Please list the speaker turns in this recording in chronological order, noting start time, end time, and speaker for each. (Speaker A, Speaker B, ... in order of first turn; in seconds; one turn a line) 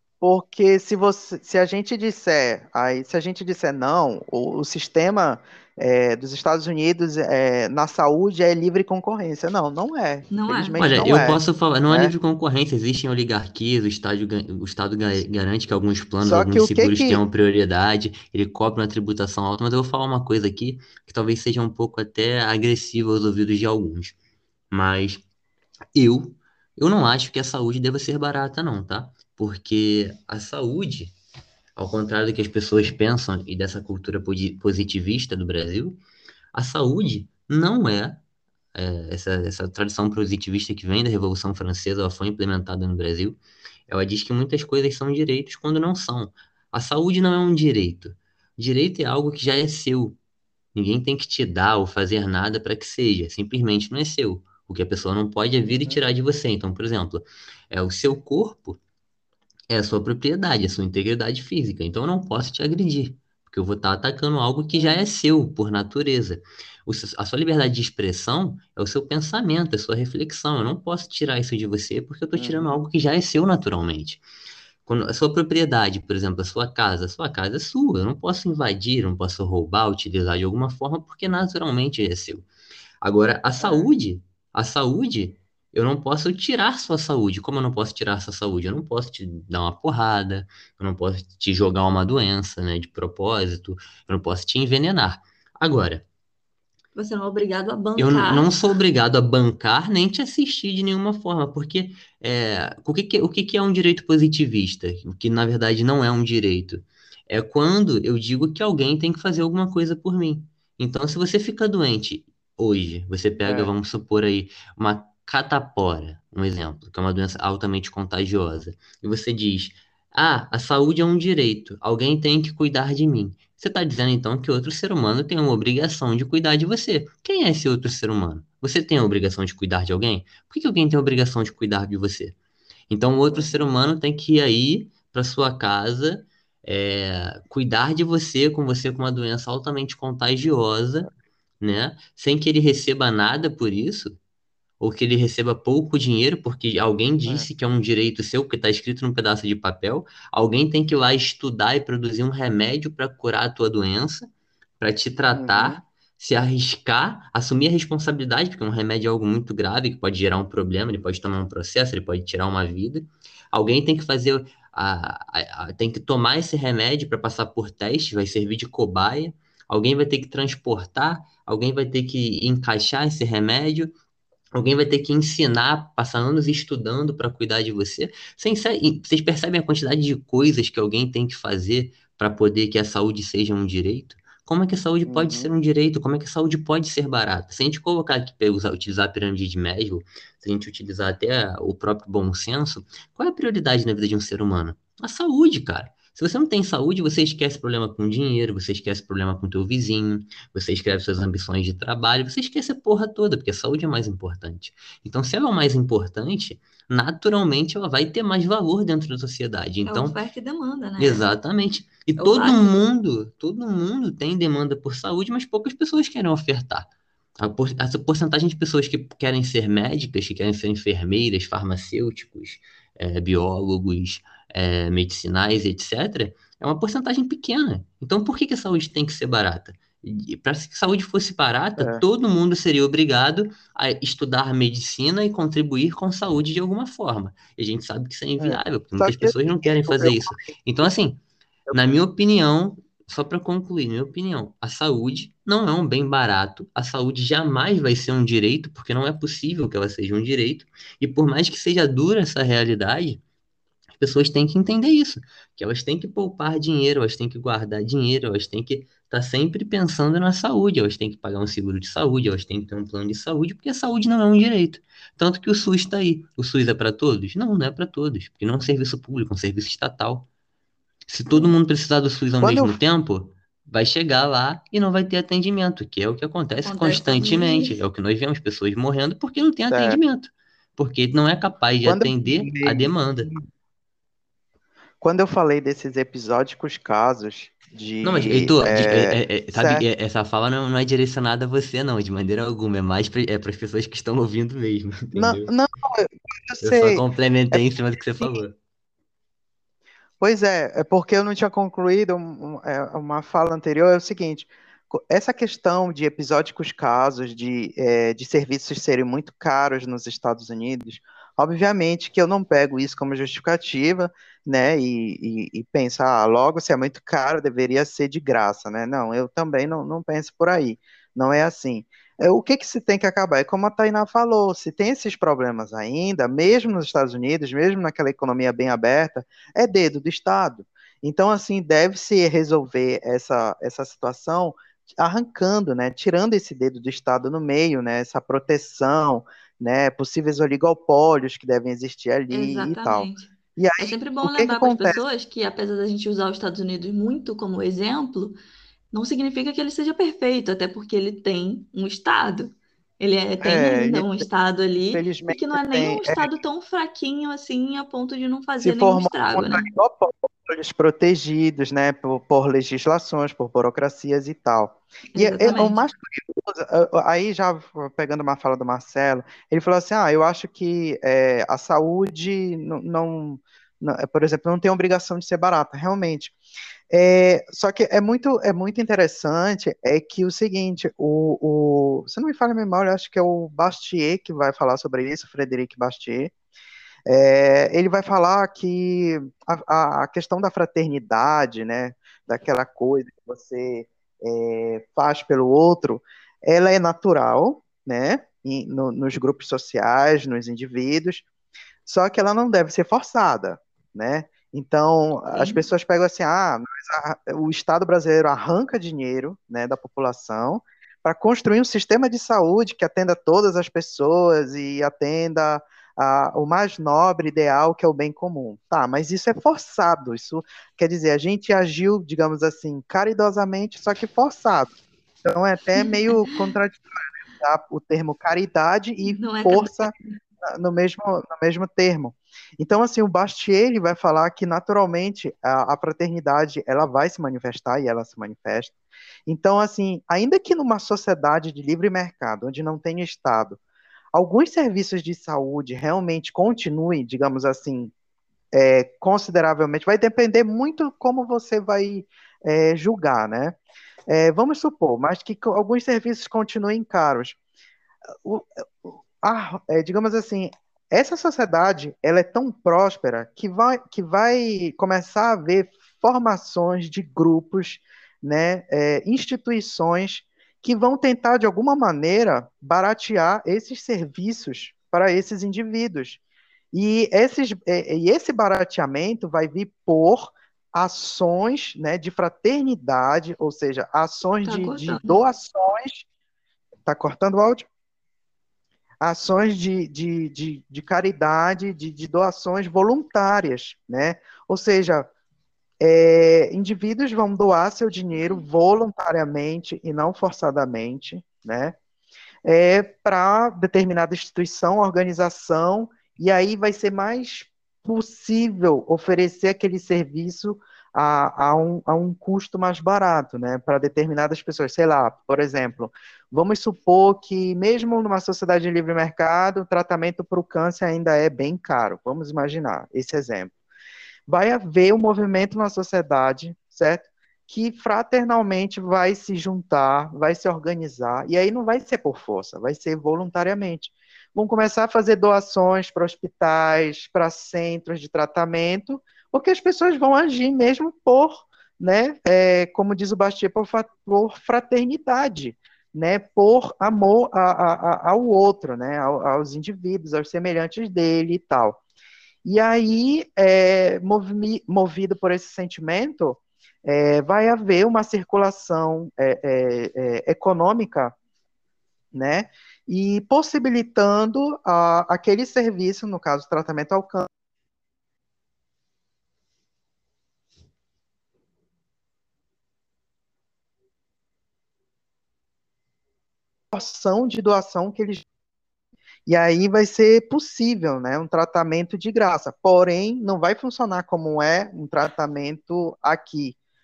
Speaker A: 0.2-12.1
Speaker B: 10.3-10.9
Speaker C: 10.8-24.2
Speaker A: 16.2-17.2
Speaker C: 24.7-25.2
Speaker C: 25.9-31.1
Speaker C: 31.8-36.0
Speaker C: 36.5-38.2
Speaker C: 38.7-50.2
Speaker C: 50.8-58.8
Speaker A: 55.7-56.0
Speaker C: 59.7-74.2
Speaker A: 64.7-65.1
Speaker A: 72.4-72.8
Speaker C: 74.9-82.5
Speaker C: 83.0-96.0
Speaker A: 83.6-83.9
Speaker B: 97.0-98.5
Speaker C: 98.0-132.4
Speaker A: 113.4-113.7
Speaker C: 132.9-141.1
Speaker A: 133.3-133.7
Speaker C: 141.6-144.2
Speaker C: 144.8-173.9
Speaker A: 155.3-155.8
Speaker C: 174.5-210.2
Speaker A: 185.1-185.5
Speaker B: 209.8-211.3
Speaker C: 211.0-253.2
Speaker B: 212.2-212.9
Speaker A: 231.8-232.0
Speaker A: 238.4-240.9
Speaker C: 254.0-270.3
Speaker C: 271.1-283.3
Speaker A: 272.4-272.8
Speaker B: 276.6-277.8
Speaker A: 279.7-280.0
Speaker A: 281.9-283.4
Speaker A: 285.0-289.9
Speaker C: 288.0-295.5
Speaker A: 295.1-297.6
Speaker C: 296.6-298.6
Speaker A: 300.2-345.0
Speaker B: 342.3-348.4
Speaker B: 348.9-359.7
Speaker A: 353.4-354.3
Speaker A: 354.9-356.4
Speaker A: 358.6-376.4
Speaker B: 365.1-365.8
Speaker A: 376.9-386.3
Speaker A: 387.1-401.2
Speaker A: 401.9-424.7
Speaker B: 405.3-405.6
Speaker A: 425.2-429.9
Speaker B: 429.0-429.9
Speaker A: 430.4-438.8
Speaker A: 439.3-443.6
Speaker A: 444.1-447.9
Speaker A: 448.5-453.6
Speaker A: 454.1-457.4
Speaker A: 458.2-476.2
Speaker A: 476.7-486.1
Speaker B: 484.4-485.2
Speaker A: 486.9-487.7
Speaker A: 489.0-495.1
Speaker A: 495.8-501.8
Speaker B: 498.1-498.5
Speaker A: 502.4-523.5
Speaker A: 524.3-551.8
Speaker A: 552.4-561.1
Speaker A: 562.1-567.3
Speaker A: 576.7-578.2
Speaker A: 579.3-586.6